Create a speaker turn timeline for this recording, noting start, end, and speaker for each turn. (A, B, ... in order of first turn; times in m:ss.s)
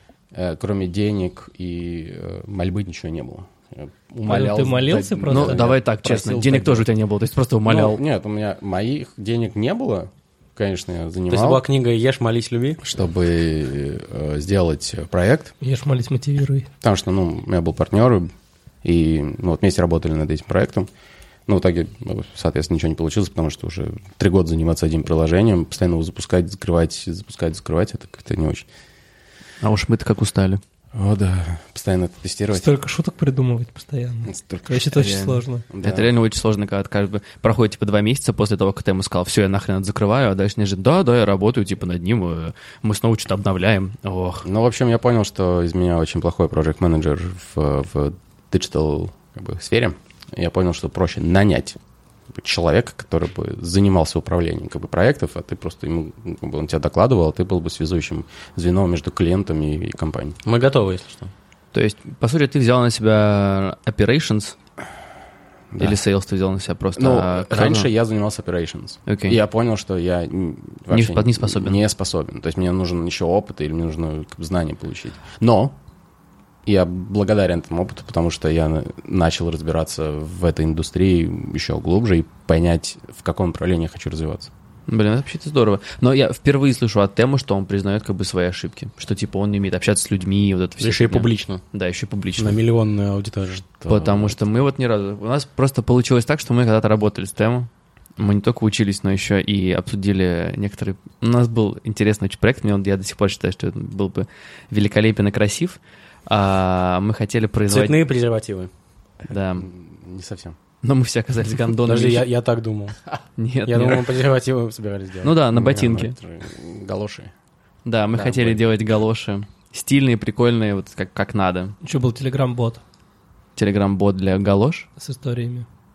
0:00.3-0:06.9 A
0:04.3-0:05.6 B
0:05.3-0:08.0 C
0:07.6-0:11.6 A
0:11.3-0:12.8 D
0:12.8-0:15.5 A
0:15.6-0:16.7 B
0:16.8-0:18.3 A
0:18.8-0:20.9 A
0:21.5-0:28.7 A
0:29.6-0:30.6 C
0:30.9-0:32.7 A
0:32.5-0:35.6 B
0:34.3-0:35.1 A
0:34.9-0:44.5 C
0:35.7-0:36.1 A
0:44.4-0:51.8 A
0:52.3-1:00.4 A
1:00.4-1:01.3 D
1:01.7-1:04.6 C
1:05.7-1:06.0 A
1:05.8-1:07.9 C
1:07.0-1:15.8 A
1:09.1-1:09.4 C
1:10.9-1:11.8 C
1:16.7-1:24.5 A
1:24.9-1:32.6 C
1:30.8-1:31.6 D
1:32.4-1:33.6 D
1:33.8-1:34.4 A
1:33.9-1:48.0 C
1:47.7-1:48.7 D
1:49.3-1:49.7 C
1:49.6-1:50.6 A
1:50.8-1:52.3 C
1:51.8-1:53.0 D
1:53.4-1:54.1 C
1:53.7-1:55.4 D
1:55.2-1:56.2 C
1:55.5-1:57.3 A
1:57.8-2:01.8 C
1:58.1-1:58.6 A
2:01.8-2:02.8 B
2:03.6-2:04.9 C
2:05.0-2:05.7 B